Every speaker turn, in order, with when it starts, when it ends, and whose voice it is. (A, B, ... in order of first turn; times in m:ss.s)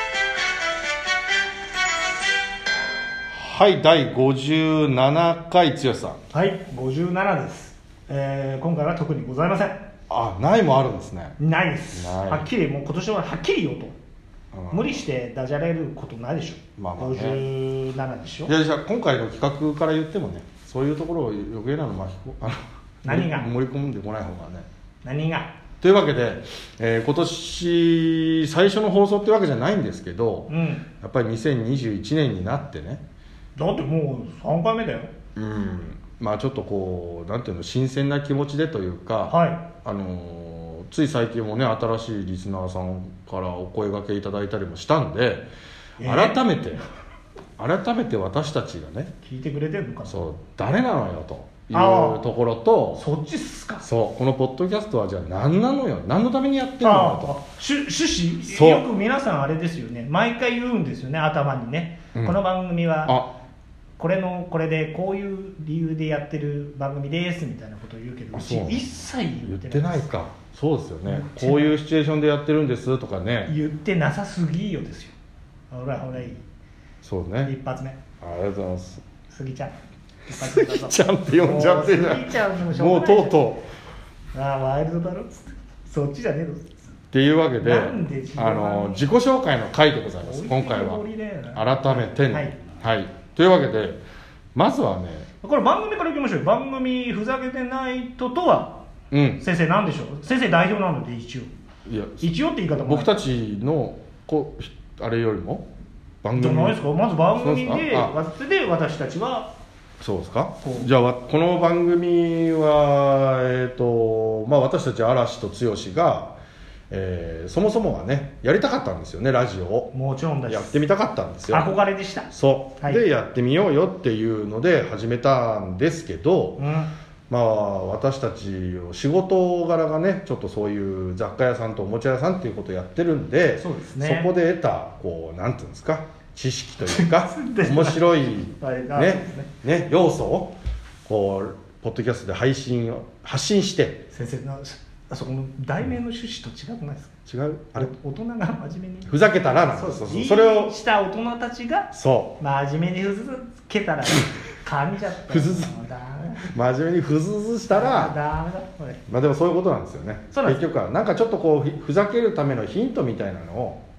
0:03.3-0:06.2 A
0:06.3-0:09.8 B
0:10.1-0:11.4 A
0:11.4-0:14.0 B
0:11.9-0:12.5 A
0:14.5-0:15.0 A
0:14.7-0:18.5 B
0:16.8-0:17.4 A
0:18.5-0:24.7 A
0:23.0-0:23.5 B
0:25.0-0:25.5 B
0:25.8-0:33.0 A
0:30.5-0:30.8 B
0:33.6-0:35.1 B
0:35.4-0:45.4 A
0:39.3-0:39.6 B
0:46.0-0:46.4 B
0:46.0-0:46.8 A
0:47.6-0:49.1 A
0:49.2-0:50.2 B
0:50.0-0:53.0 A
0:51.7-0:52.2 B
0:53.0-0:53.8 B
0:53.8-0:57.4 A
0:56.8-1:03.2 B
0:58.5-0:58.8 A
1:03.0-1:03.3 A
1:04.0-1:10.1 B
1:08.3-1:08.9 A
1:09.4-1:13.5 A
1:11.0-1:11.8 B
1:13.5-1:15.1 B
1:15.7-1:16.4 B
1:17.0-1:17.5 A
1:17.4-1:18.0 B
1:18.2-1:19.0 A
1:19.3-1:19.8 B
1:20.3-1:23.4 B
1:20.3-1:23.7 A
1:24.3-1:26.7 B
1:27.1-1:31.0 A
1:27.6-1:29.1 B
1:30.2-1:32.6 B
1:31.5-1:34.0 A
1:34.5-1:35.3 A
1:35.4-1:38.8 B
1:39.1-1:39.4 A
1:39.4-1:41.5 B
1:41.9-1:45.7 A
1:42.2-1:43.2 B
1:46.2-1:46.8 A
1:46.4-1:49.5 B
1:47.4-1:48.1 A
1:50.0-1:56.4 A
1:50.6-1:50.9 B
1:56.9-1:59.9 A
1:59.9-2:00.8 B
2:00.5-2:01.7 A
2:01.5-2:03.0 B
2:02.3-2:06.6 A
2:06.6-2:06.9 B
2:07.3-2:20.5 A
2:13.6-2:14.3 B
2:16.8-2:19.5 B
2:21.0-2:24.1 A
2:24.1-2:27.1 B
2:27.3-2:27.9 A
2:27.7-2:29.1 B
2:29.0-2:30.7 A
2:29.6-2:36.5 B
2:31.9-2:32.4 A
2:35.3-2:35.7 A
2:36.4-2:38.2 A
2:37.7-2:39.0 B
2:39.1-2:43.8 A
2:40.3-2:40.6 B